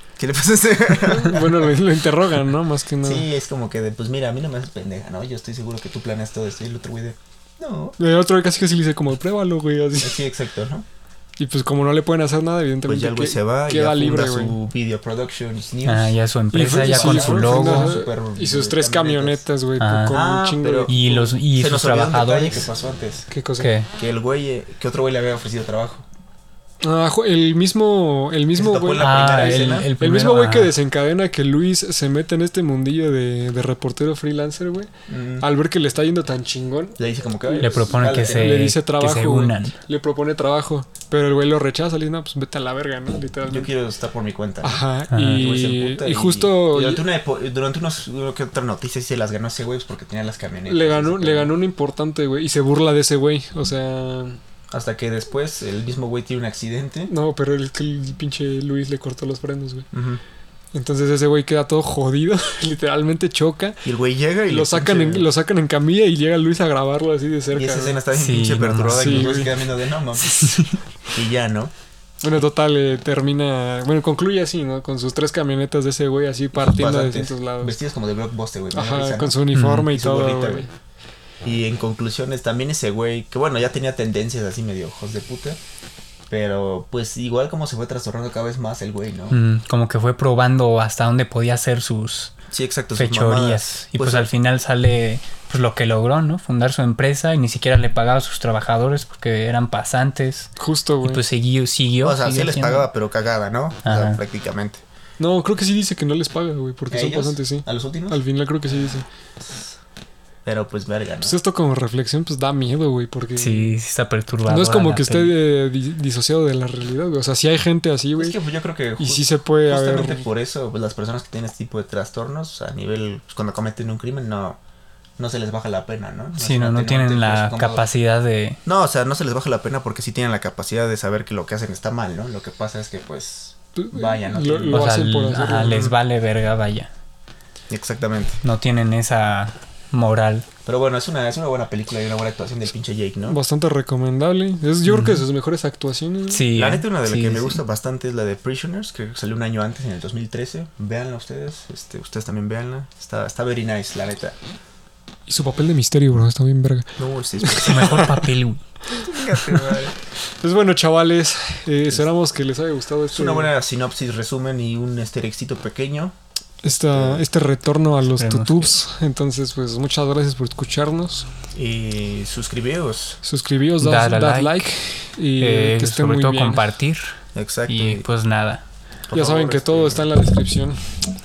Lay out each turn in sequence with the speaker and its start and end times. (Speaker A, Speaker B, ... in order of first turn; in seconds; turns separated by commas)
Speaker A: 0.2-1.8, Speaker B: 1.1-3.3, Speaker A: 3.0-8.0, Speaker B: 8.0-10.2, Speaker A: 10.0-10.9, Speaker B: 11.4-14.6, Speaker A: 12.8-19.5, Speaker C: 15.8-17.9, Speaker B: 16.5-21.0, Speaker C: 19.8-20.2, Speaker A: 20.1-23.3, Speaker C: 20.9-22.7, Speaker B: 23.3-23.7, Speaker C: 23.6-23.9, Speaker A: 24.0-26.1, Speaker B: 26.8-43.7, Speaker A: 28.6-29.9, Speaker C: 29.0-30.7, Speaker A: 35.1-35.5, Speaker A: 37.0-38.7, Speaker C: 37.6-39.8, Speaker A: 43.4-51.5, Speaker B: 44.6-47.0, Speaker C: 45.1-45.5, Speaker B: 50.7-54.4, Speaker A: 54.7-57.1, Speaker B: 57.1-59.9, Speaker A: 59.9-60.2, Speaker B: 60.7-63.8, Speaker A: 63.9-65.3, Speaker B: 64.5-68.0, Speaker A: 67.5-70.6, Speaker C: 68.1-69.4, Speaker B: 68.9-69.6, Speaker C: 70.2-70.8, Speaker A: 71.1-71.7, Speaker B: 72.2-77.8, Speaker A: 76.5-79.4, Speaker B: 78.7-80.7, Speaker C: 79.5-79.9, Speaker A: 79.9-80.7, Speaker A: 81.4-85.6, Speaker A: 86.3-89.4, Speaker C: 89.3-92.4, Speaker A: 92.5-94.3, Speaker C: 93.0-100.5, Speaker B: 100.6-101.2, Speaker C: 101.0-102.9, Speaker A: 102.0-104.8, Speaker C: 103.8-104.2, Speaker B: 105.2-109.1, Speaker A: 106.9-108.2, Speaker A: 109.4-109.8, Speaker A: 110.5-111.4, Speaker B: 111.2-113.8, Speaker C: 113.4-115.4, Speaker B: 114.5-118.4, Speaker A: 118.2-124.6, Speaker B: 119.0-120.3, Speaker A: 125.2-127.9, Speaker C: 126.4-128.6, Speaker A: 128.7-134.9, Speaker B: 133.8-135.8, Speaker C: 134.7-136.9, Speaker A: 135.7-136.0, Speaker A: 137.7-138.4, Speaker C: 138.4-140.4, Speaker A: 140.7-143.4, Speaker B: 143.2-146.5, Speaker C: 144.9-145.2, Speaker C: 146.3-147.6, Speaker A: 146.5-154.3, Speaker B: 155.3-158.2, Speaker A: 157.0-158.2, Speaker C: 157.6-158.6, Speaker B: 158.9-159.8, Speaker A: 159.0-159.9, Speaker B: 160.4-163.5, Speaker A: 163.1-166.2, Speaker B: 166.6-171.3, Speaker A: 166.7-167.3, Speaker C: 168.1-168.8, Speaker A: 171.5-173.2, Speaker B: 173.2-176.7, Speaker C: 173.8-174.6, Speaker C: 175.4-177.2, Speaker A: 177.3-178.1, Speaker C: 177.7-178.6, Speaker A: 179.1-180.1, Speaker B: 179.1-180.8